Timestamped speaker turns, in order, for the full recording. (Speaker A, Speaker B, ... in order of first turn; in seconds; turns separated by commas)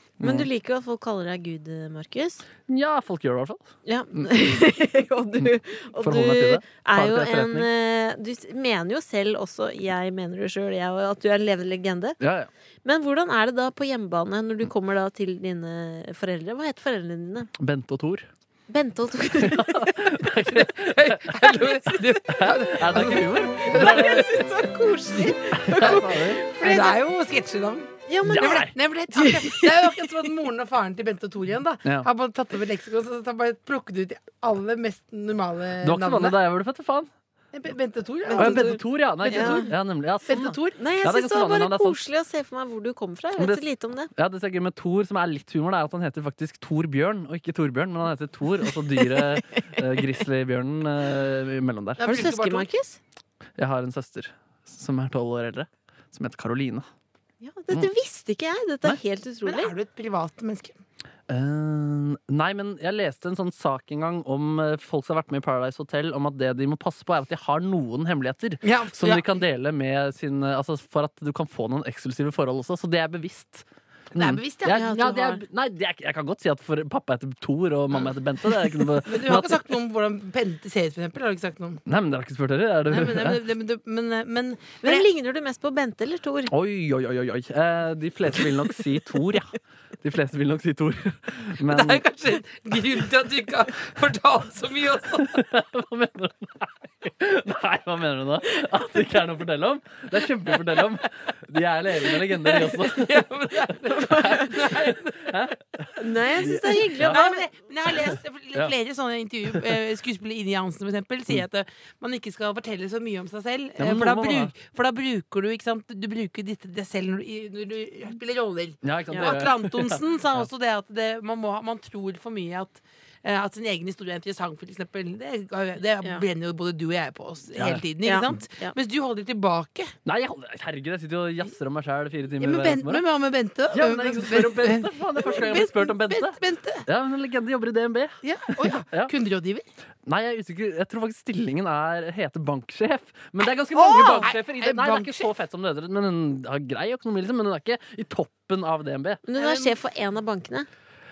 Speaker A: 0.2-0.5, Speaker B: 0.2-2.4, Speaker A: 2.7-3.6, Speaker B: 3.9-12.2, Speaker A: 4.2-4.5, Speaker A: 5.4-7.7, Speaker A: 12.2-12.5, Speaker B: 12.8-17.5, Speaker A: 17.6-18.3, Speaker B: 18.7-20.2, Speaker A: 19.4-24.3, Speaker C: 20.5-24.3, Speaker B: 23.6-27.0, Speaker C: 25.2-36.4, Speaker A: 25.5-26.5, Speaker B: 28.1-30.0, Speaker A: 28.3-28.8, Speaker A: 35.8-37.1, Speaker C: 37.5-40.8, Speaker B: 38.3-39.7, Speaker A: 38.4-42.0, Speaker B: 40.8-44.1, Speaker A: 43.4-43.6, Speaker A: 44.1-52.2, Speaker B: 48.6-49.6, Speaker C: 52.0-52.7, Speaker B: 52.0-53.0, Speaker A: 53.6-56.9, Speaker B: 57.4-59.7, Speaker C: 59.4-60.8, Speaker A: 61.3-79.6, Speaker C: 68.6-69.3, Speaker C: 74.2-74.9, Speaker B: 74.7-75.4, Speaker C: 79.0-81.8, Speaker A: 81.9-83.4, Speaker C: 82.9-85.1, Speaker B: 84.8-86.5, Speaker A: 86.5-92.0, Speaker C: 91.6-95.4, Speaker A: 95.2-107.2, Speaker C: 102.2-105.4, Speaker B: 104.0-104.5, Speaker B: 106.0-107.5, Speaker C: 107.0-129.9, Speaker A: 113.8-114.5, Speaker A: 118.8-120.0, Speaker A: 127.6-127.9, Speaker B: 128.0-128.8, Speaker A: 130.1-133.0, Speaker C: 132.4-136.8, Speaker A: 133.7-139.1, Speaker C: 138.2-139.7, Speaker A: 140.1-149.2, Speaker B: 143.8-144.3, Speaker C: 144.0-145.3, Speaker B: 149.2-150.7, Speaker C: 149.3-149.8